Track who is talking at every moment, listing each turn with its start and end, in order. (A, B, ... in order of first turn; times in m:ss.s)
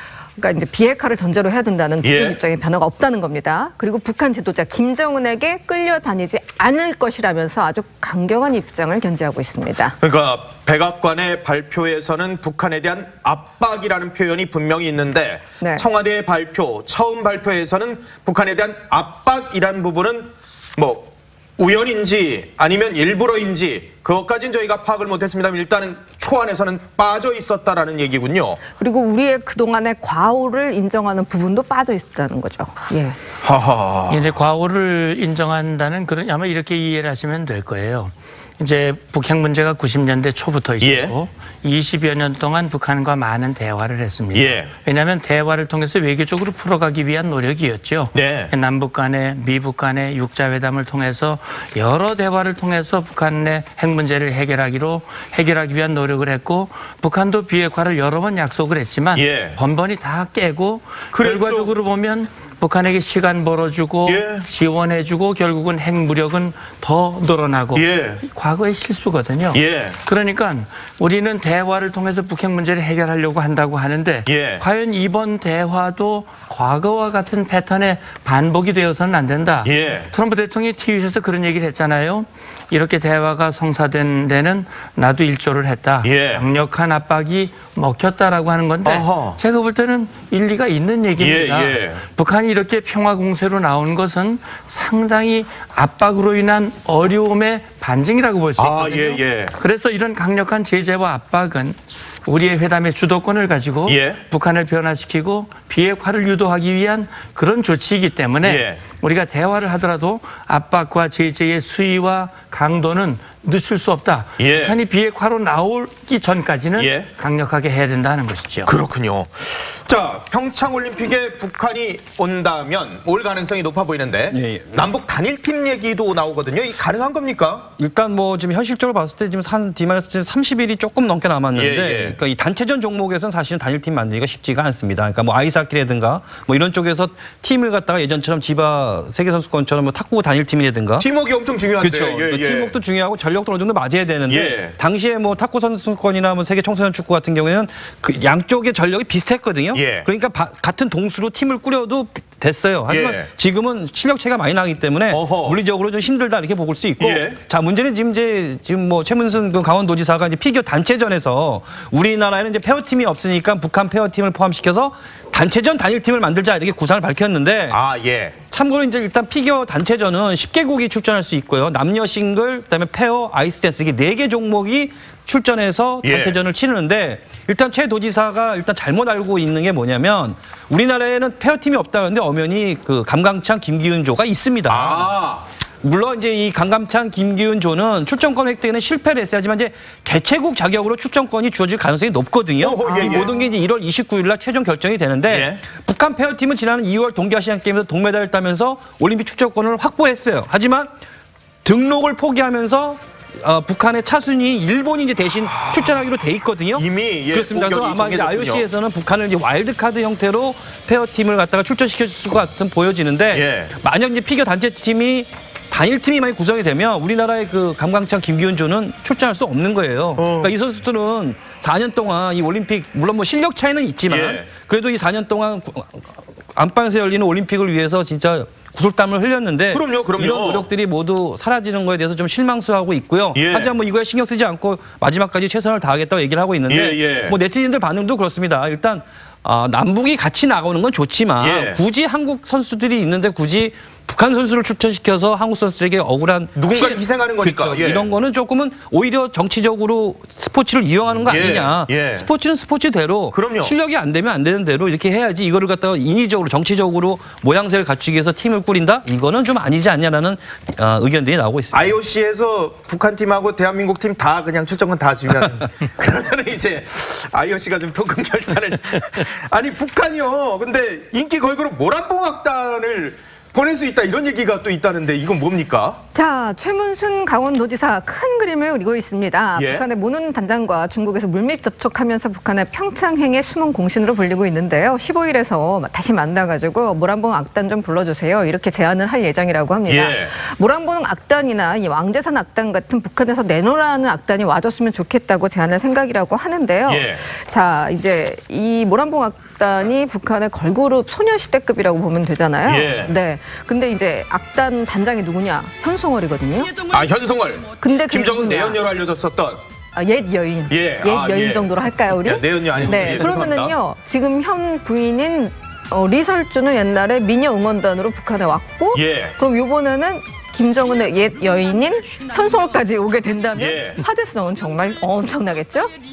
0:00.4-0:10.0 A
0:02.0-0:02.4 B
0:10.0-0:28.6 B
0:28.8-0:33.2 A
0:33.4-0:34.2 B
0:34.1-1:58.7 C
0:40.8-0:41.2 B
0:44.3-0:44.7 B
0:48.1-0:48.5 B
0:59.2-0:59.6 B
1:01.1-1:01.7 B
1:04.0-1:04.5 B
1:07.7-1:08.2 B
1:09.5-1:10.0 B
1:14.3-1:14.6 B
1:19.6-1:20.1 B
1:26.0-1:26.4 B
1:28.8-1:29.4 B
1:31.2-1:32.0 B
1:38.6-1:39.5 B
1:43.9-1:44.2 B
1:48.4-1:48.8 B
1:54.4-1:54.8 B
1:56.8-1:57.1 B
1:58.7-2:07.7 B
2:04.3-2:04.9 D
2:07.8-2:21.1 D
2:11.5-2:12.2 B
2:21.0-2:22.7 B
2:21.8-2:47.8 D
2:24.3-2:24.8 B
2:29.7-2:30.1 B
2:32.9-2:33.3 B
2:35.1-2:35.6 B
2:37.0-2:37.4 B
2:47.7-2:48.4 B
2:48.5-3:05.1 D
2:56.0-2:56.4 B
3:04.7-3:05.5 B
3:05.8-3:20.9 D
3:12.6-3:13.3 B
3:15.3-3:15.6 B
3:21.6-4:21.9 D
3:25.5-3:26.0 B
3:26.7-3:28.6 B
3:33.3-3:33.7 B
3:40.2-3:40.5 B
3:44.1-3:44.5 B
3:49.7-3:50.7 B
3:53.3-3:53.7 B
3:56.7-3:57.4 B
4:01.4-4:01.8 B
4:06.6-4:08.1 B
4:11.2-4:12.3 B
4:13.3-4:13.8 B
4:21.7-4:36.0 B
4:36.1-5:06.8 A
4:39.6-4:39.8 B
4:49.9-4:50.3 B
4:56.9-4:57.2 B
5:02.6-5:03.1 B
5:06.8-5:09.6 B
5:07.8-5:08.8 A
5:10.0-5:25.9 A
5:10.7-5:13.7 B
5:18.9-5:19.4 B
5:23.5-5:24.0 B